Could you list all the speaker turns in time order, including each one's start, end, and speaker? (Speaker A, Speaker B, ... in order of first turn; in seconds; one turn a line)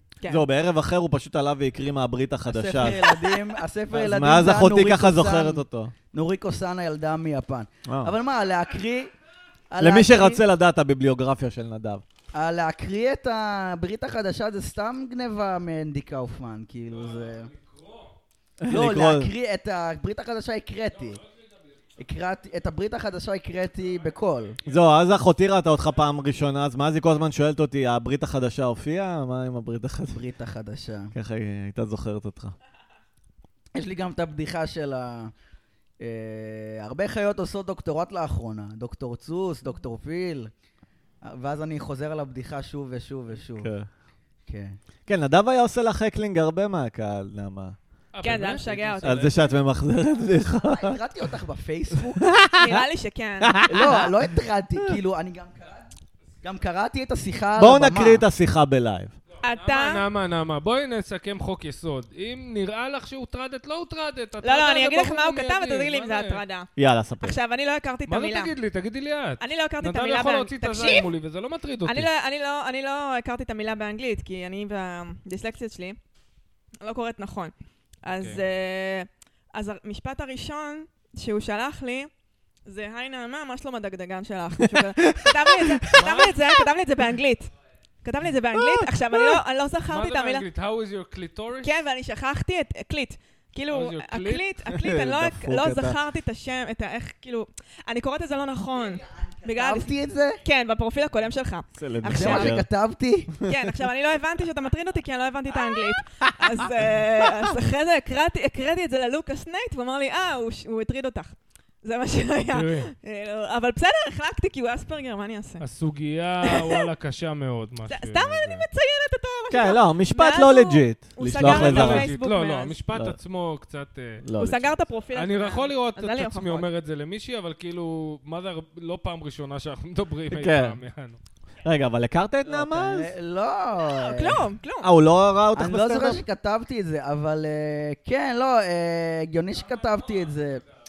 Speaker A: 0.3-3.3
Speaker B: 2.5-9.1
Speaker A: 3.9-5.9
Speaker A: 7.9-8.1
Speaker B: 9.7-10.4
Speaker A: 9.8-12.0
Speaker B: 12.3-17.5
Speaker C: 16.9-18.2
Speaker A: 18.6-19.3
Speaker B: 18.7-21.2
Speaker C: 21.1-21.7
Speaker B: 22.0-24.6
Speaker C: 24.6-24.9
Speaker A: 24.7-30.2
Speaker B: 30.1-31.1
Speaker A: 31.1-32.5
Speaker B: 33.7-35.3
Speaker B: 36.0-40.5
Speaker B: 41.2-43.7
Speaker A: 43.6-43.9
Speaker B: 44.5-44.8
Speaker A: 45.1-47.8
Speaker C: 48.1-49.6
Speaker D: 48.2-49.2
Speaker A: 49.0-51.0
Speaker B: 50.5-52.3
Speaker A: 52.0-52.9
Speaker D: 52.6-53.6
Speaker A: 53.4-55.0
Speaker B: 53.7-55.9
Speaker B: 56.4-58.2
Speaker A: 57.6-59.1
Speaker D: 59.4-60.0
Speaker C: 59.5-66.4
Speaker D: 64.4-66.7
Speaker A: 66.8-67.4
Speaker D: 67.2-68.5
Speaker C: 68.1-72.1
Speaker D: 69.4-71.1
Speaker D: 71.8-76.0
Speaker D: 76.8-82.1
Speaker C: 78.2-78.4
Speaker D: 82.7-87.5
Speaker A: 84.7-86.0
Speaker C: 85.9-86.3
Speaker D: 88.0-90.5
Speaker A: 88.5-89.4
Speaker C: 89.9-91.8
Speaker D: 91.6-102.6
Speaker C: 93.7-94.5
Speaker A: 94.7-96.0
Speaker B: 98.8-100.4
Speaker A: 101.8-102.7
Speaker B: 102.1-103.3
Speaker D: 103.5-115.6
Speaker A: 106.2-106.6
Speaker C: 112.5-112.9
Speaker C: 115.6-118.7
Speaker D: 116.5-116.8
Speaker D: 117.9-122.8
Speaker A: 119.5-122.1
Speaker C: 121.4-124.2
Speaker A: 124.2-124.7
Speaker D: 124.4-126.7
Speaker C: 125.1-131.2
Speaker A: 130.3-130.8
Speaker A: 131.6-133.1
Speaker B: 132.5-134.4
Speaker D: 133.9-134.9
Speaker A: 134.8-136.2
Speaker B: 135.6-140.6